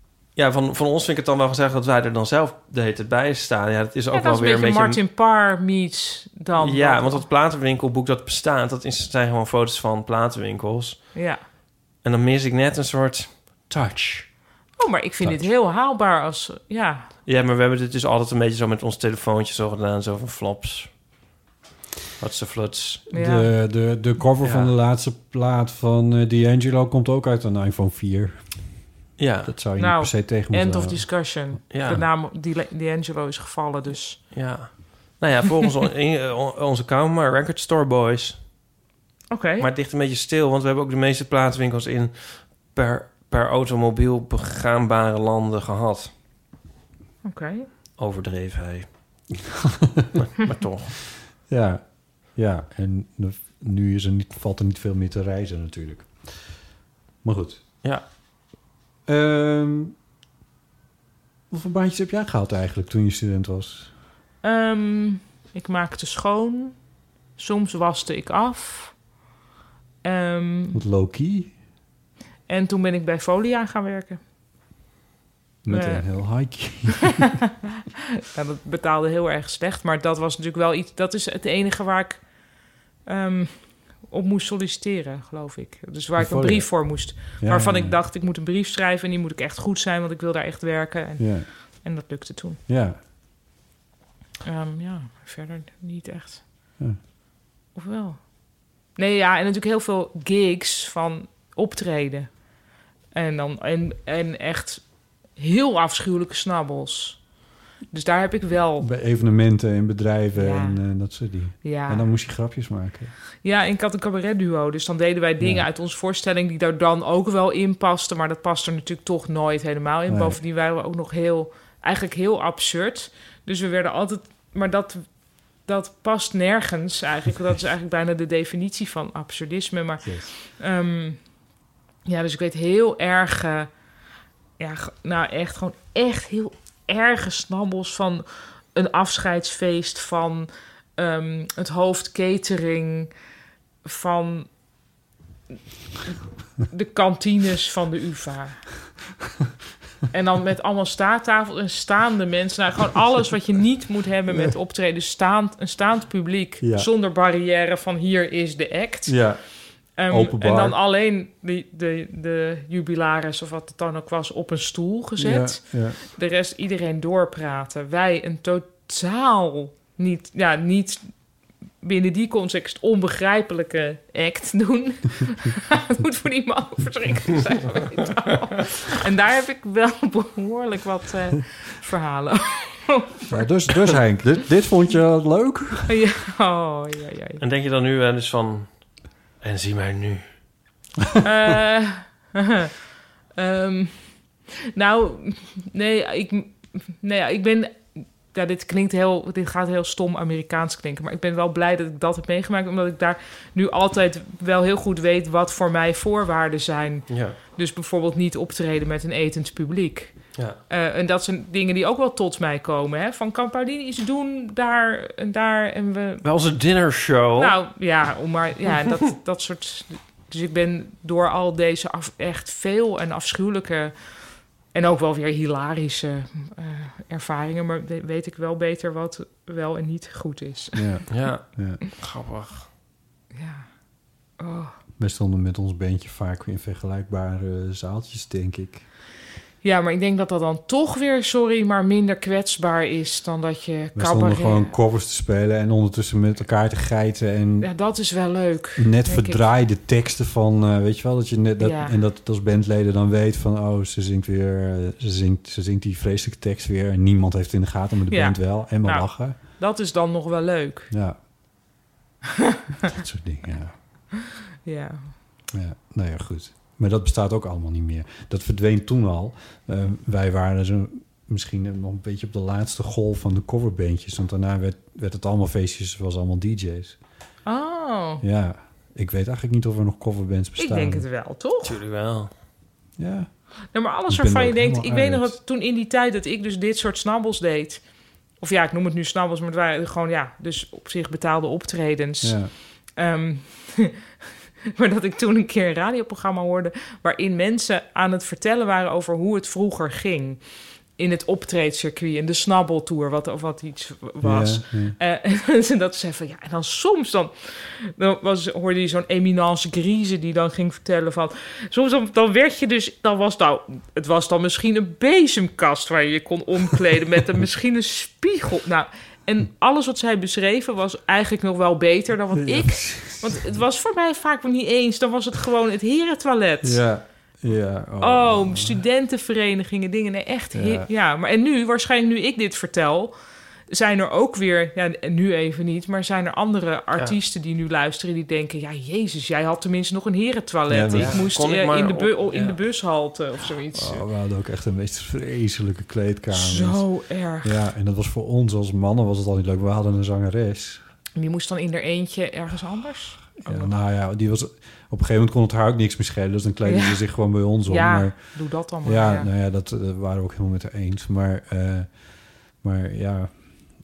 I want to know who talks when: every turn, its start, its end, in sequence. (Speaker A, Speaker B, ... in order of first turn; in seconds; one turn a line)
Speaker A: 0.3-5.0
Speaker B: 4.1-7.2
Speaker A: 6.5-11.2
Speaker B: 11.1-11.4
Speaker A: 12.0-14.3
Speaker B: 14.8-17.1
Speaker C: 15.2-15.5
Speaker A: 17.2-21.0
Speaker A: 22.2-23.0
Speaker B: 23.1-23.5
Speaker C: 23.1-28.8
Speaker A: 24.4-24.7
Speaker A: 29.2-29.5
Speaker C: 29.4-31.3
Speaker B: 29.8-34.2
Speaker A: 31.7-32.0
Speaker A: 34.3-38.4
Speaker B: 39.3-39.7
Speaker A: 39.6-46.1
Speaker B: 47.2-47.7
Speaker A: 48.0-48.9
Speaker A: 50.3-50.9
Speaker C: 51.5-56.5
Speaker C: 57.2-57.6
Speaker C: 59.0-59.9
Speaker C: 61.5-63.9
Speaker B: 64.4-66.8
Speaker B: 67.4-69.0
Speaker B: 70.0-70.8
Speaker C: 70.7-71.5
Speaker B: 72.5-74.2
Speaker C: 75.6-77.3
Speaker B: 75.7-76.5
Speaker B: 78.3-82.3
Speaker B: 83.0-92.6
Speaker C: 86.2-88.0
Speaker C: 91.2-91.5
Speaker C: 92.7-93.0
Speaker B: 94.4-96.4
Speaker B: 97.7-98.3
Speaker B: 98.9-102.4
Speaker B: 103.1-107.3
Speaker B: 107.9-108.9
Speaker C: 108.8-113.1
Speaker B: 110.3-110.8
Speaker B: 111.6-112.1
Speaker B: 113.4-131.2
Speaker C: 115.4-115.6
Speaker C: 120.1-120.4
Speaker C: 130.0-130.3
Speaker B: 132.1-133.7
Speaker B: 134.6-143.1
Speaker B: 143.8-144.5
Speaker B: 146.7-148.7
Speaker B: 150.1-159.2
Speaker C: 156.6-156.9
Speaker C: 159.1-160.8
Speaker B: 160.0-171.1
Speaker C: 165.2-166.0
Speaker B: 171.8-183.4
Speaker C: 183.3-185.9
Speaker B: 185.9-187.4
Speaker A: 187.4-190.3
Speaker B: 191.2-192.7
Speaker B: 193.3-216.2
Speaker A: 207.1-207.3
Speaker A: 216.2-217.6
Speaker B: 217.4-231.1
Speaker C: 230.7-231.8
Speaker A: 231.1-232.7
Speaker B: 233.3-233.7
Speaker B: 234.4-234.7
Speaker C: 235.0-238.8
Speaker B: 239.6-244.7
Speaker C: 243.9-247.7
Speaker B: 247.6-249.4
Speaker C: 248.8-259.4
Speaker B: 251.6-251.9
Speaker B: 258.1-260.9
Speaker C: 260.9-261.2
Speaker C: 262.9-263.7
Speaker B: 264.6-265.1
Speaker C: 265.5-277.0
Speaker B: 277.4-278.2
Speaker C: 278.2-281.1
Speaker B: 280.6-281.7
Speaker A: 281.6-282.3
Speaker C: 283.0-283.4
Speaker B: 283.7-287.8
Speaker C: 284.1-285.3
Speaker B: 288.4-293.9
Speaker C: 292.2-292.5
Speaker B: 294.7-300.4
Speaker B: 300.9-326.8
Speaker C: 304.2-305.0
Speaker C: 322.4-323.4
Speaker C: 326.6-328.8
Speaker B: 328.0-333.1
Speaker C: 330.5-330.9
Speaker B: 333.7-344.0
Speaker C: 340.7-341.3
Speaker A: 340.9-342.6
Speaker C: 343.7-346.8
Speaker B: 346.3-347.6
Speaker C: 347.4-350.8
Speaker B: 351.2-353.7
Speaker C: 353.4-361.9
Speaker B: 356.6-357.0
Speaker B: 357.6-359.3
Speaker C: 362.6-363.4